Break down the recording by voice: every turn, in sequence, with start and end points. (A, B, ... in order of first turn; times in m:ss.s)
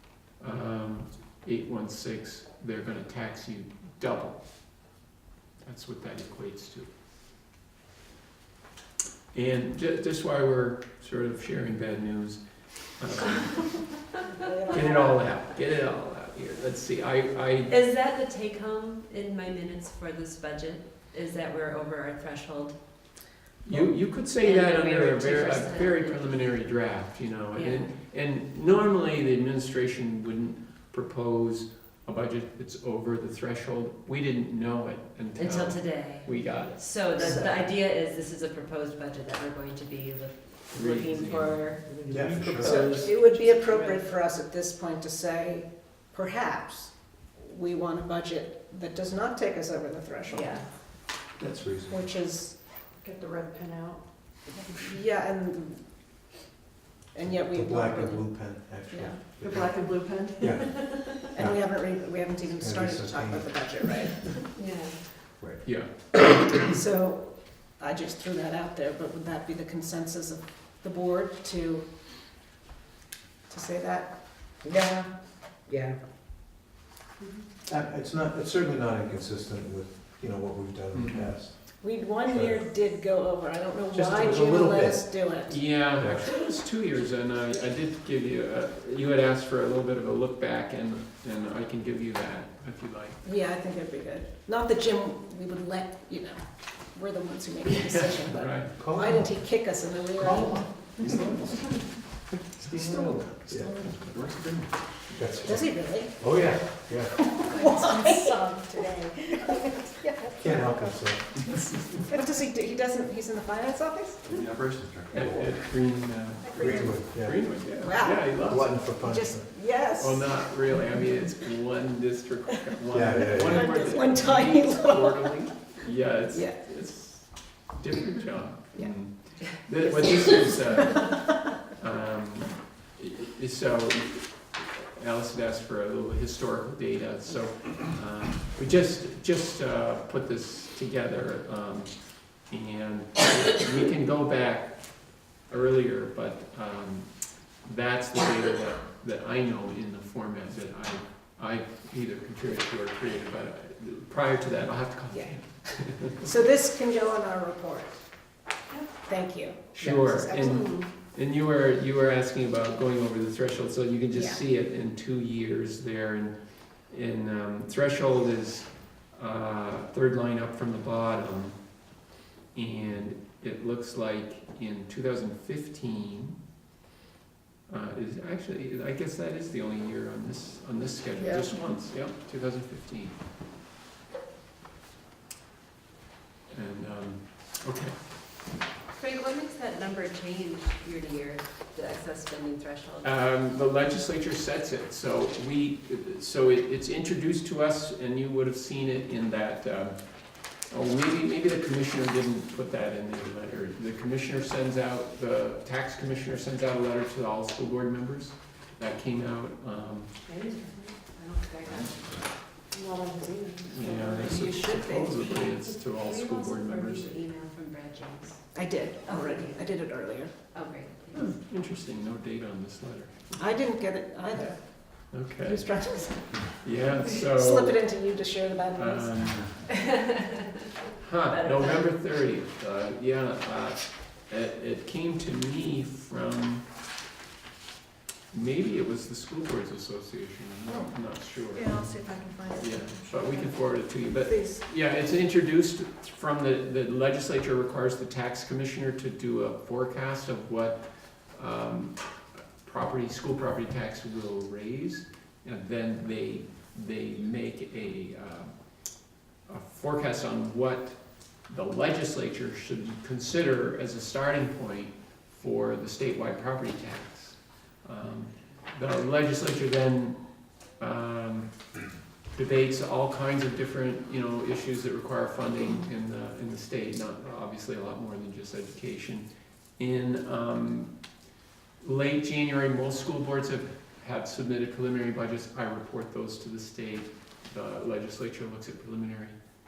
0:00.4-0:04.4 A
0:05.6-0:06.9 A
0:09.3-0:14.0 A
0:14.4-0:15.4 B
0:14.7-0:17.7 A
0:17.7-0:22.8 C
0:23.6-0:37.5 A
0:24.2-0:26.6 C
0:27.5-0:27.9 C
0:35.3-0:42.0 C
0:40.7-0:41.8 A
0:42.1-0:42.8 D
0:42.1-0:42.8 E
0:42.6-0:50.6 B
0:42.6-0:44.1 C
0:50.3-0:50.6 C
0:51.4-0:52.1 E
0:51.9-0:52.6 B
0:53.0-0:54.0 F
0:54.7-0:55.8 B
0:57.1-0:59.2 B
0:57.3-1:01.8 E
0:59.4-1:00.4 F
1:01.3-1:04.4 B
1:02.5-1:03.6 E
1:04.5-1:05.0 C
1:05.4-1:05.6 E
1:05.6-1:05.9 A
1:06.4-1:11.8 B
1:13.5-1:14.1 B
1:17.6-1:22.6 E
1:20.9-1:21.3 A
1:21.8-1:25.7 B
1:23.9-1:25.1 E
1:25.5-1:33.2 A
1:26.0-1:26.3 E
1:33.2-1:40.6 B
1:37.8-1:38.7 A
1:38.8-1:39.6 E
1:40.2-1:41.0 E
1:41.0-1:41.8 D
1:42.6-1:45.0 D
1:42.8-1:43.8 E
1:45.1-1:47.1 E
1:45.4-1:46.3 B
1:47.1-1:54.3 B
1:47.5-1:48.8 F
1:50.3-1:51.4 E
1:54.3-1:55.3 D
1:55.1-1:58.8 A
1:55.2-1:55.5 E
1:56.4-1:56.8 B
1:56.5-1:57.6 E
1:57.8-2:00.4 B
1:58.3-1:59.5 E
2:00.0-2:36.3 A
2:02.9-2:03.7 E
2:03.3-2:05.4 B
2:06.3-2:06.6 B
2:08.7-2:09.0 B
2:09.6-2:11.1 B
2:35.1-2:35.4 B
2:36.0-2:38.0 B
2:39.0-2:40.7 B
2:39.8-2:51.6 A
2:40.3-2:40.8 C
2:44.1-2:44.4 B
2:52.5-2:56.4 A
2:57.7-3:03.2 A
3:06.5-3:07.9 A
3:09.0-3:13.2 C
3:13.0-3:30.1 A
3:30.3-3:31.8 C
3:33.3-3:33.6 F
3:33.6-3:37.1 A
3:33.9-3:35.3 B
3:35.8-3:38.4 C
3:38.5-3:40.3 B
3:39.0-3:39.6 C
3:40.5-3:41.4 C
3:41.1-3:43.3 A
3:43.4-3:49.6 B
3:45.1-3:45.6 A
3:46.6-3:47.8 A
3:48.7-3:49.7 A
3:49.8-3:50.3 C
3:51.0-3:56.6 A
3:51.2-3:51.9 C
3:58.3-4:01.9 A
4:00.7-4:00.9 B
4:01.6-4:02.7 B
4:01.7-4:02.7 F
4:02.5-4:18.5 A
4:04.2-4:04.6 B
4:19.5-4:30.2 A
4:30.8-4:31.6 A
4:32.3-4:39.3 A
4:39.8-4:40.9 A
4:41.8-4:49.4 A